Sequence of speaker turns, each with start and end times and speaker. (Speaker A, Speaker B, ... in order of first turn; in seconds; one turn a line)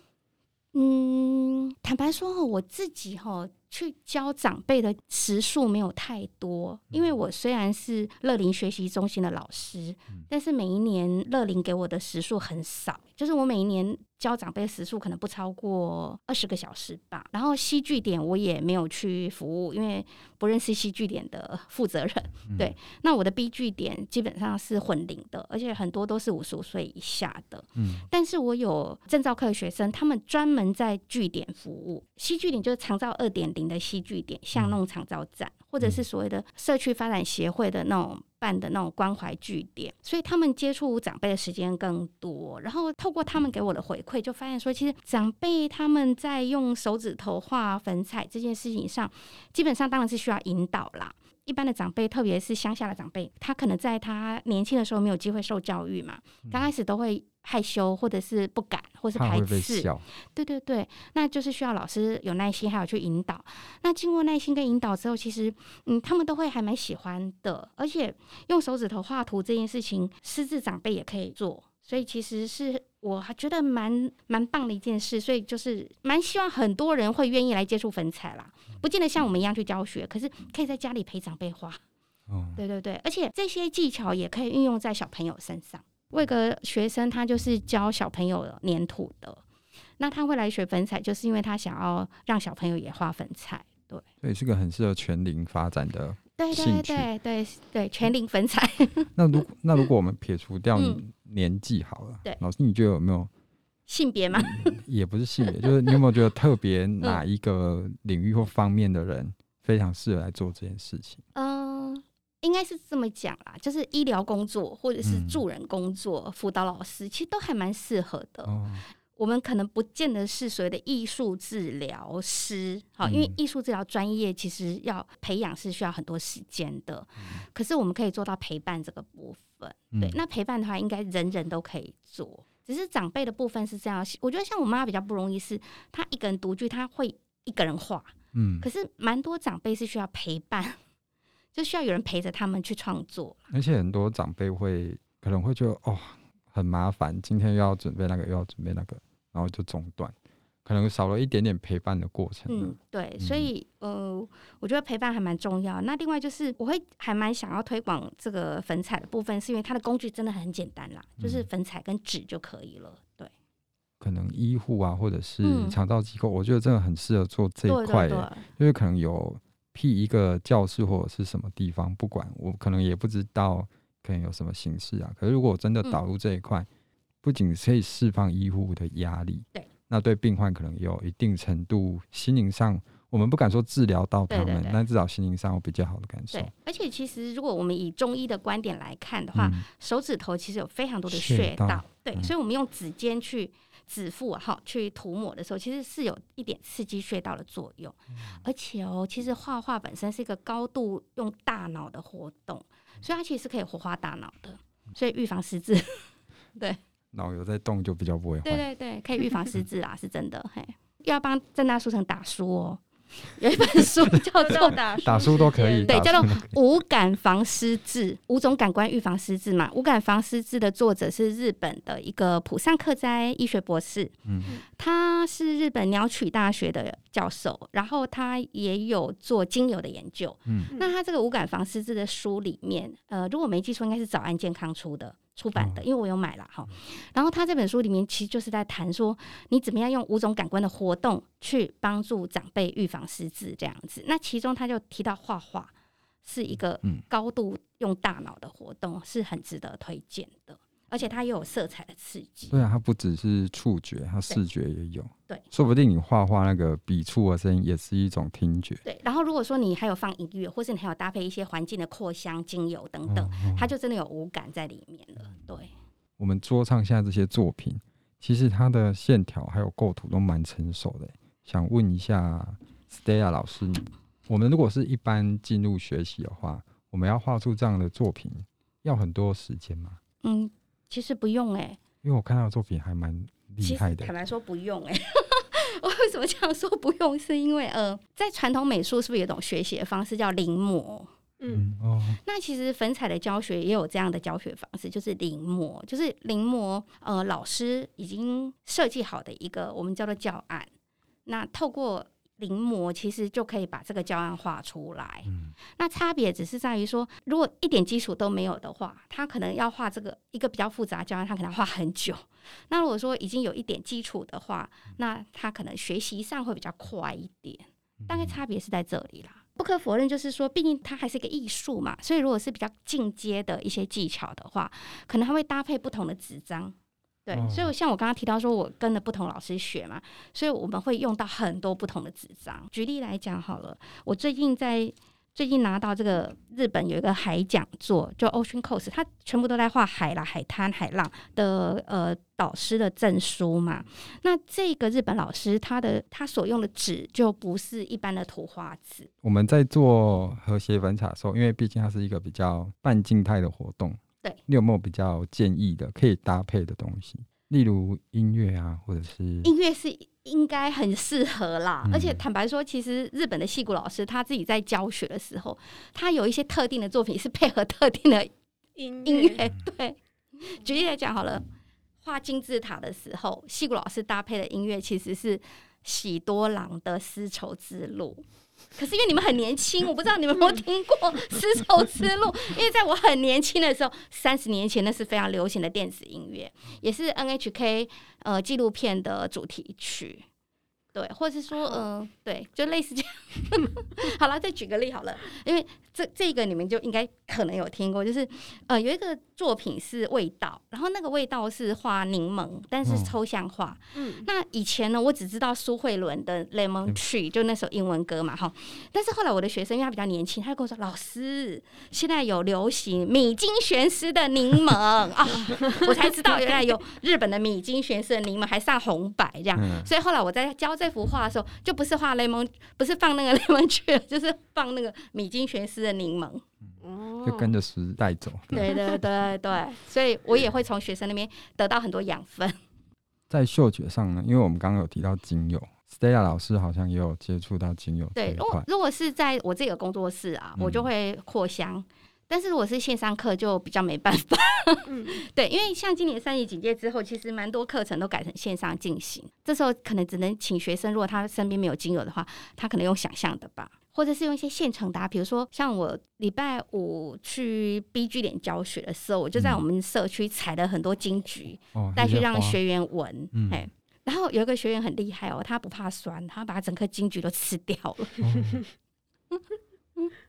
Speaker A: 0.7-81.8
Speaker B: 22.5-22.7
Speaker B: 27.8-28.0
Speaker B: 59.1-60.0
Speaker B: 82.3-82.6
Speaker A: 82.5-89.4
Speaker A: 90.0-94.0
Speaker B: 94.2-97.1
Speaker A: 96.4-99.1
Speaker B: 99.2-103.3
Speaker A: 100.7-101.0
Speaker A: 103.9-104.8
Speaker B: 104.3-111.2
Speaker A: 105.4-106.0
Speaker A: 111.3-118.5
Speaker B: 115.0-115.4
Speaker B: 118.5-118.8
Speaker A: 119.2-140.8
Speaker B: 123.0-123.3
Speaker B: 129.9-130.2
Speaker B: 138.3-138.7
Speaker A: 141.5-143.5
Speaker B: 143.5-153.5
Speaker A: 152.5-163.3
Speaker B: 161.2-161.5
Speaker B: 164.0-176.7
Speaker A: 165.4-165.8
Speaker A: 167.7-168.5
Speaker B: 177.2-186.5
Speaker A: 184.3-184.8
Speaker A: 186.3-206.8
Speaker B: 189.3-189.7
Speaker B: 191.1-192.3
Speaker B: 207.1-208.6
Speaker A: 208.4-215.1
Speaker C: 214.3-216.3
Speaker B: 214.5-216.6
Speaker A: 215.8-224.1
Speaker B: 224.2-224.5
Speaker A: 224.7-245.7
Speaker B: 230.4-230.7
Speaker B: 235.6-235.8
Speaker A: 246.2-252.6
Speaker B: 252.5-258.8
Speaker A: 258.8-265.7
Speaker B: 263.1-263.7
Speaker B: 266.2-280.0
Speaker A: 280.2-281.8
Speaker B: 282.0-284.1
Speaker A: 283.6-291.1
Speaker C: 291.4-291.6
Speaker B: 291.5-292.2
Speaker A: 292.2-300.7
Speaker A: 301.2-326.7
Speaker B: 318.0-318.4
Speaker A: 327.2-349.1
Speaker B: 327.3-327.7
Speaker B: 349.2-359.5
Speaker A: 359.4-368.3
Speaker B: 361.9-362.2
Speaker C: 368.8-369.4
Speaker A: 369.0-371.4
Speaker A: 372.0-378.2
Speaker A: 378.7-390.2
Speaker A: 390.9-426.4
Speaker B: 402.8-403.1
Speaker C: 403.9-404.3
Speaker B: 419.6-419.9
Speaker C: 426.8-427.5
Speaker B: 427.2-428.6
Speaker A: 428.5-432.6
Speaker C: 428.6-429.0
Speaker B: 433.3-438.7
Speaker A: 438.1-468.3
Speaker B: 440.6-440.9
Speaker C: 444.9-445.2
Speaker B: 461.7-462.6
Speaker B: 463.3-463.6
Speaker B: 468.2-468.6